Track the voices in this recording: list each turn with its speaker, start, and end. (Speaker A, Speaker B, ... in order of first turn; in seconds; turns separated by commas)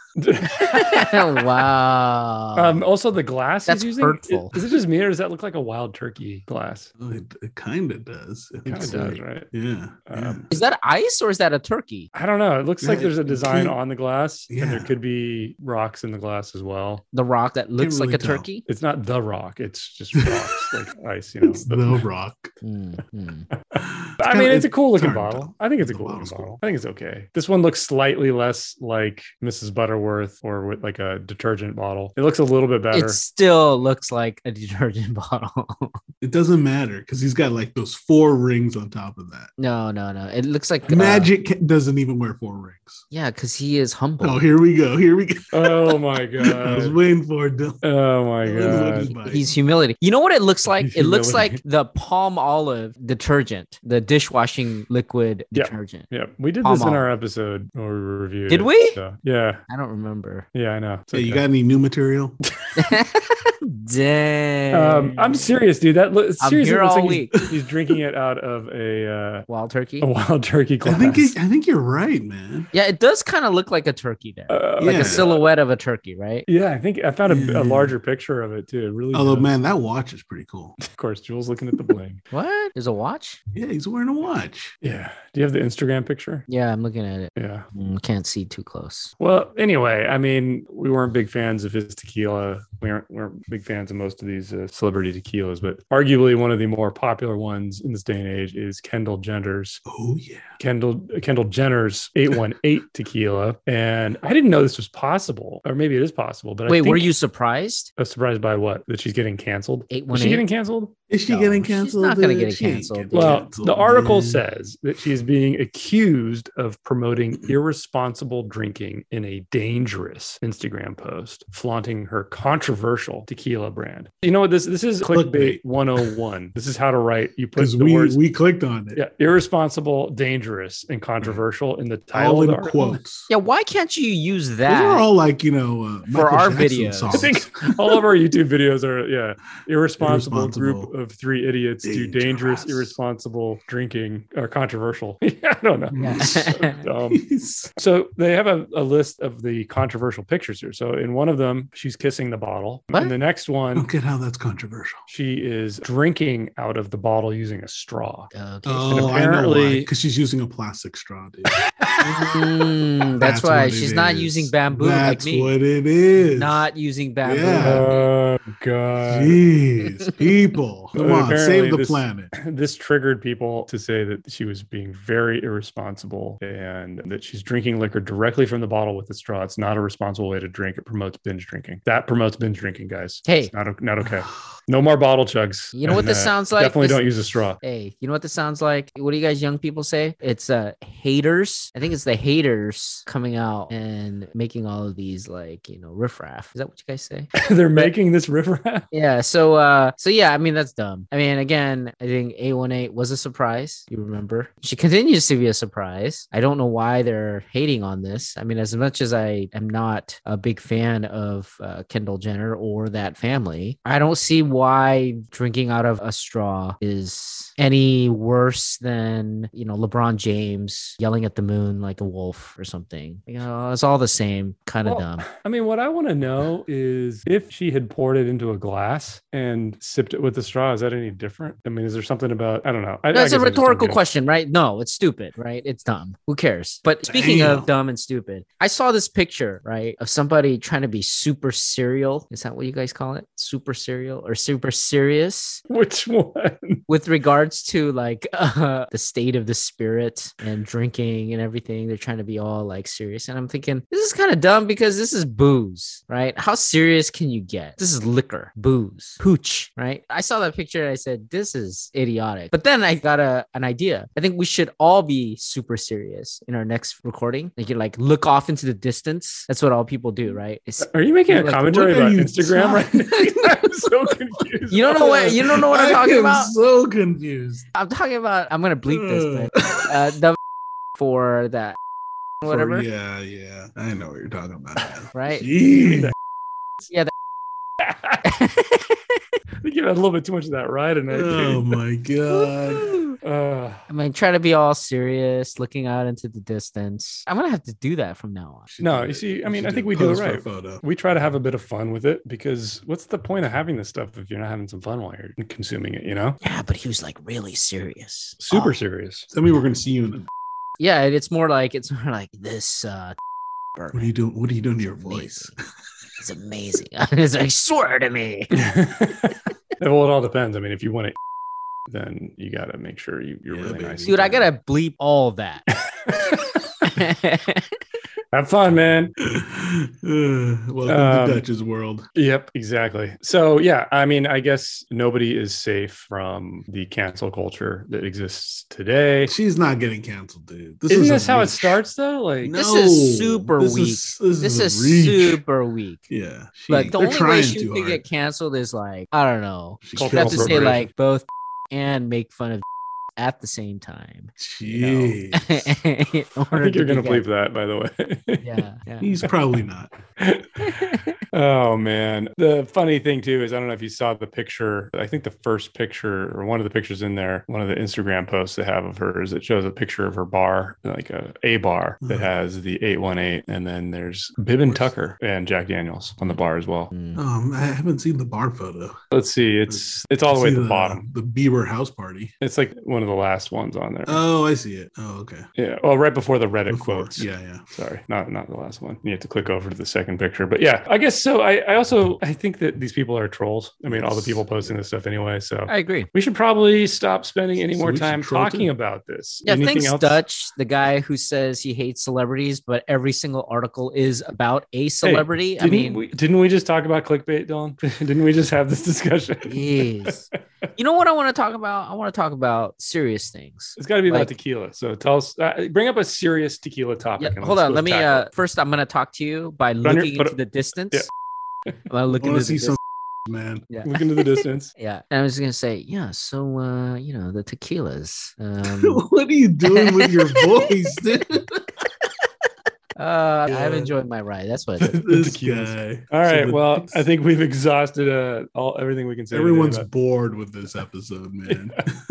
Speaker A: 0.2-1.2, Speaker B: 0.5-2.8, Speaker A: 2.6-6.9, Speaker B: 3.7-4.5, Speaker C: 7.0-10.5, Speaker A: 8.7-9.5, Speaker A: 10.1-10.4, Speaker B: 10.5-12.1, Speaker A: 12.1-17.0, Speaker C: 12.8-13.8, Speaker C: 14.5-14.9, Speaker B: 17.1-18.6, Speaker C: 17.8-18.5, Speaker A: 18.7-22.0, Speaker C: 21.4-22.5, Speaker B: 22.6-23.5, Speaker C: 23.8-26.6, Speaker A: 24.2-33.2, Speaker B: 32.9-35.9, Speaker C: 36.2-39.5, Speaker B: 39.6-41.3, Speaker C: 40.9-43.0, Speaker B: 43.1-44.4, Speaker C: 44.2-47.8, Speaker A: 45.5-47.0, Speaker A: 47.8-49.1, Speaker C: 48.4-49.5, Speaker B: 49.1-56.1, Speaker A: 50.8-51.6, Speaker A: 55.5-59.6, Speaker B: 56.6-57.1, Speaker B: 58.5-59.0, Speaker B: 59.7-60.5, Speaker A: 60.5-61.5, Speaker C: 61.1-62.4, Speaker B: 62.8-65.5, Speaker A: 64.7-69.5, Speaker B: 66.4-67.4, Speaker B: 69.5-70.1, Speaker A: 70.0-71.4, Speaker C: 70.8-72.7, Speaker B: 72.7-76.5, Speaker A: 74.5-75.4, Speaker C: 74.8-75.3, Speaker A: 76.5-79.5, Speaker C: 77.2-78.0, Speaker C: 79.1-80.8, Speaker A: 80.8-82.2, Speaker B: 82.3-83.4, Speaker C: 83.5-84.8, Speaker A: 84.8-86.5, Speaker B: 86.5-89.1, Speaker A: 87.4-87.6, Speaker A: 89.2-99.8, Speaker C: 99.9-100.6, Speaker A: 100.6-107.1, Speaker B: 106.7-107.9, Speaker A: 108.0-110.9, Speaker B: 109.9-110.5, Speaker C: 111.1-114.4, Speaker B: 111.3-113.5, Speaker A: 113.1-128.2, Speaker C: 125.0-126.1, Speaker C: 127.6-129.0, Speaker A: 128.9-133.0, Speaker C: 131.2-131.5, Speaker C: 132.1-133.3, Speaker B: 133.3-135.1, Speaker C: 134.7-137.4, Speaker B: 136.1-137.3, Speaker A: 137.1-147.2, Speaker C: 140.0-140.9, Speaker C: 141.8-143.0, Speaker C: 145.9-146.5, Speaker B: 146.0-146.8, Speaker C: 147.1-147.7, Speaker A: 147.8-153.9, Speaker C: 153.8-155.0, Speaker A: 155.1-158.3, Speaker B: 158.3-159.2, Speaker C: 158.7-161.6, Speaker A: 158.9-159.9, Speaker B: 162.0-165.5, Speaker C: 163.2-166.7, Speaker B: 166.3-168.1, Speaker C: 167.2-167.9, Speaker A: 167.6-169.4, Speaker C: 169.1-172.3, Speaker A: 170.9-187.6, Speaker B: 183.2-183.5, Speaker C: 184.0-184.4, Speaker B: 185.7-187.1, Speaker B: 187.6-197.9, Speaker A: 197.4-198.8, Speaker B: 198.9-225.3, Speaker A: 224.8-234.0, Speaker B: 233.1-245.6, Speaker C: 237.1-237.7, Speaker A: 245.7-246.8, Speaker B: 246.9-271.6, Speaker A: 270.9-275.5, Speaker C: 271.5-273.2, Speaker B: 274.7-276.5, Speaker C: 275.5-277.6, Speaker B: 277.8-280.4, Speaker C: 278.9-279.8, Speaker B: 281.0-281.8, Speaker B: 282.4-282.9, Speaker C: 282.5-286.1, Speaker B: 285.1-285.5, Speaker A: 285.8-286.1, Speaker A: 287.8-288.2, Speaker B: 288.4-288.9, Speaker A: 289.6-291.6, Speaker C: 291.1-292.9, Speaker B: 292.3-293.1, Speaker A: 293.2-293.8, Speaker B: 293.9-298.7, Speaker C: 298.7-300.8, Speaker A: 298.8-306.4, Speaker B: 306.4-308.5, Speaker A: 308.4-309.3, Speaker C: 309.3-310.2, Speaker B: 310.8-313.1, Speaker B: 313.8-314.1, Speaker C: 313.9-315.5, Speaker B: 314.8-315.5, Speaker B: 316.2-318.5, Speaker A: 318.5-321.1, Speaker A: 321.9-324.5, Speaker C: 323.5-324.2, Speaker B: 324.0-325.6, Speaker A: 326.0-326.9, Speaker B: 326.9-327.6, Speaker A: 328.3-329.1, Speaker C: 329.3-332.1, Speaker A: 330.9-331.4, Speaker A: 332.1-339.3, Speaker C: 339.2-341.8, Speaker A: 340.9-342.5, Speaker B: 342.4-346.1, Speaker C: 342.4-345.4, Speaker C: 346.1-348.0, Speaker B: 346.7-352.6, Speaker C: 349.8-350.9, Speaker A: 350.0-350.9, Speaker B: 353.2-357.2, Speaker C: 354.4-355.8, Speaker A: 356.5-358.6, Speaker B: 358.4-359.1, Speaker C: 359.0-359.9, Speaker A: 360.2-360.8, Speaker B: 360.6-361.1, Speaker A: 361.3-376.9, Speaker C: 372.0-372.3, Speaker C: 374.7-375.0, Speaker B: 376.9-377.2, Speaker C: 377.1-379.0, Speaker A: 379.1-381.0, Speaker C: 379.7-382.3, Speaker A: 382.4-384.2, Speaker C: 384.1-385.5, Speaker A: 385.6-400.2, Speaker C: 386.7-387.6, Speaker C: 393.9-394.7, Speaker B: 395.7-396.1, Speaker C: 397.7-398.7, Speaker B: 399.4-406.0, Speaker A: 405.0-409.9, Speaker B: 409.5-414.3, Speaker A: 413.8-418.3, Speaker B: 417.2-421.1, Speaker A: 419.8-420.4, Speaker B: 421.9-422.8, Speaker C: 422.2-423.7, Speaker B: 423.7-429.0, Speaker A: 423.9-424.7, Speaker C: 428.8-431.6, Speaker B: 429.7-430.4, Speaker B: 433.0-434.9, Speaker C: 433.5-433.9, Speaker C: 434.8-437.1, Speaker A: 435.1-439.9, Speaker C: 439.3-441.9